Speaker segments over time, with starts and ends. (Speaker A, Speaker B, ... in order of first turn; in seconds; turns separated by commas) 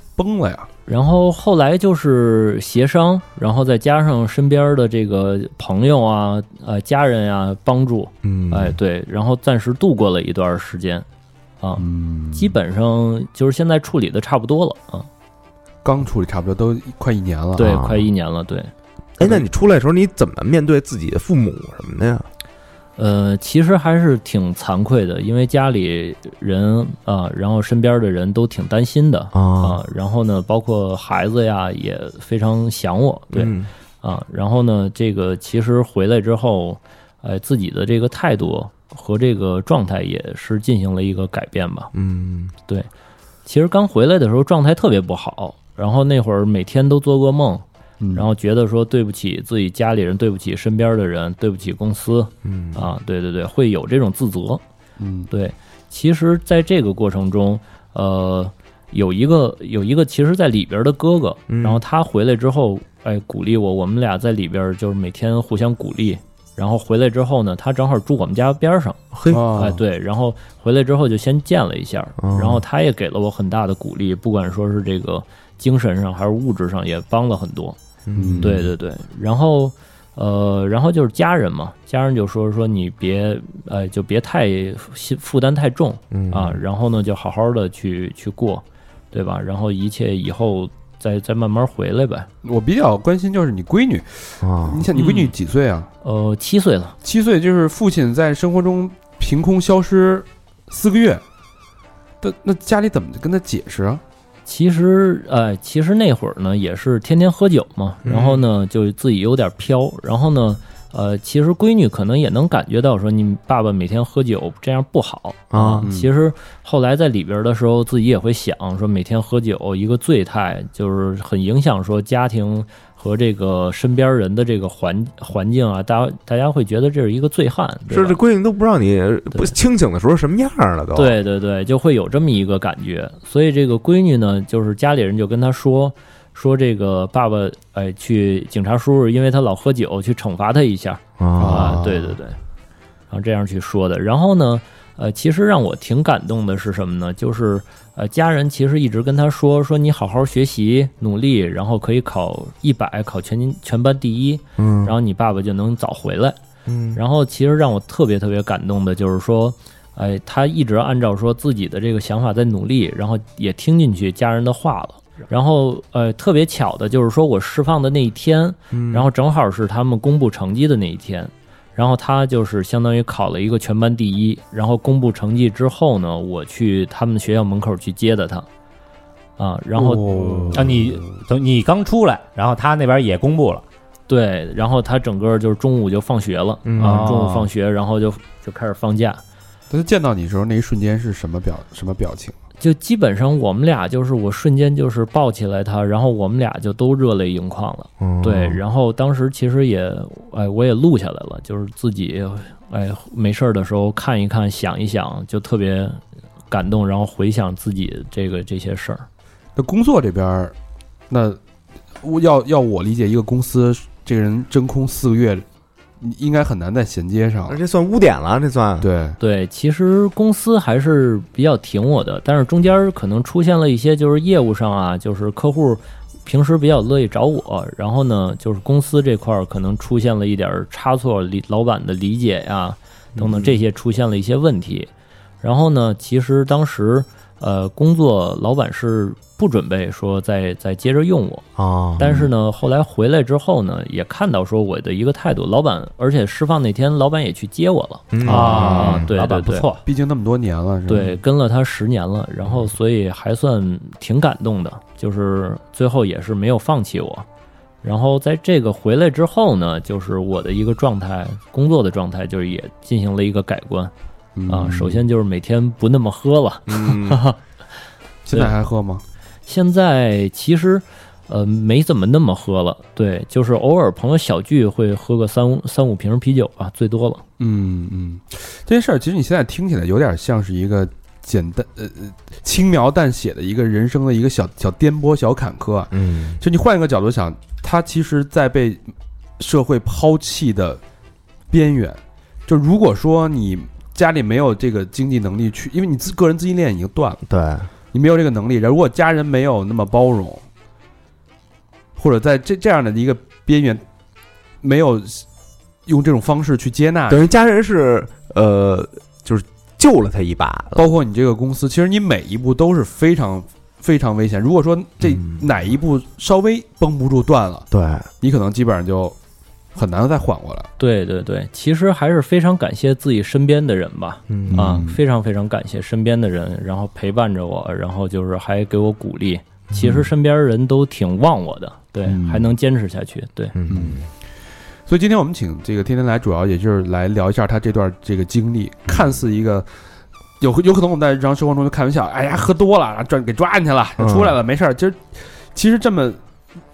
Speaker A: 0.2-0.7, Speaker B: 0.9-11.1, Speaker C: 8.2-8.8, Speaker B: 11.6-15.1, Speaker A: 11.8-12.6, Speaker A: 15.8-17.8, Speaker B: 17.6-18.7, Speaker C: 17.6-18.1, Speaker C: 19.2-22.3, Speaker B: 23.0-41.9, Speaker C: 29.3-29.8, Speaker C: 33.3-33.7, Speaker C: 41.9-42.5, Speaker B: 43.5-54.6, Speaker A: 48.0-48.3, Speaker C: 52.4-52.9, Speaker A: 55.0-55.3, Speaker B: 55.3-69.0, Speaker C: 61.5-61.8, Speaker C: 69.1-69.5, Speaker A: 69.3-69.8, Speaker B: 69.5-77.8, Speaker C: 72.2-72.6, Speaker C: 78.1-78.7, Speaker A: 78.2-78.6, Speaker B: 78.4-92.3, Speaker C: 86.1-86.6, Speaker A: 92.4-95.9, Speaker C: 94.4-94.9, Speaker B: 95.0-95.3, Speaker B: 96.0-97.0, Speaker A: 97.0-101.2, Speaker A: 102.2-104.0, Speaker B: 104.5-128.2, Speaker C: 108.0-108.4, Speaker C: 115.5-115.9, Speaker A: 115.8-116.1, Speaker C: 127.9-131.2, Speaker B: 130.9-142.4, Speaker C: 141.2-142.2, Speaker A: 141.4-141.8, Speaker B: 143.1-156.4, Speaker C: 154.6-154.9, Speaker C: 156.7-157.0, Speaker B: 156.9-178.5, Speaker C: 168.7-169.1, Speaker B: 179.4-180.8, Speaker A: 179.7-181.0, Speaker D: 180.5-183.6, Speaker B: 184.1-189.2, Speaker C: 186.7-187.1, Speaker D: 186.8-187.5, Speaker A: 189.7-192.3, Speaker B: 192.6-209.1, Speaker C: 198.0-198.6, Speaker A: 209.6-210.5, Speaker A: 211.1-211.4, Speaker A: 212.0-215.4, Speaker A: 216.0-217.6, Speaker C: 217.5-218.9, Speaker A: 218.8-219.2, Speaker B: 219.2-234.9, Speaker C: 233.2-233.6, Speaker B: 235.4-241.5, Speaker C: 241.6-242.3, Speaker B: 242.0-249.7, Speaker C: 248.1-249.1, Speaker D: 248.2-249.8, Speaker A: 248.2-248.8, Speaker A: 249.9-251.2, Speaker B: 250.9-257.3, Speaker B: 257.8-263.9, Speaker A: 264.4-265.0, Speaker B: 264.5-267.4, Speaker A: 266.7-267.2, Speaker A: 268.2-269.0, Speaker B: 269.5-277.2, Speaker A: 277.4-288.9, Speaker C: 285.9-286.4, Speaker A: 289.4-290.8, Speaker A: 291.5-297.2, Speaker C: 297.3-297.7, Speaker A: 297.9-300.4, Speaker A: 302.0-303.8, Speaker A: 304.6-305.2, Speaker A: 305.9-307.2, Speaker C: 307.1-310.9, Speaker A: 310.8-317.7, Speaker C: 315.1-315.4, Speaker C: 317.7-318.1, Speaker A: 318.2-319.2, Speaker A: 319.8-320.7, Speaker B: 320.8-333.5, Speaker C: 324.3-324.8, Speaker A: 324.5-325.0, Speaker C: 329.7-330.1, Speaker A: 332.1-332.5, Speaker C: 333.5-334.1, Speaker A: 333.7-334.1, Speaker A: 334.9-339.7, Speaker A: 340.4-346.2, Speaker C: 344.0-344.4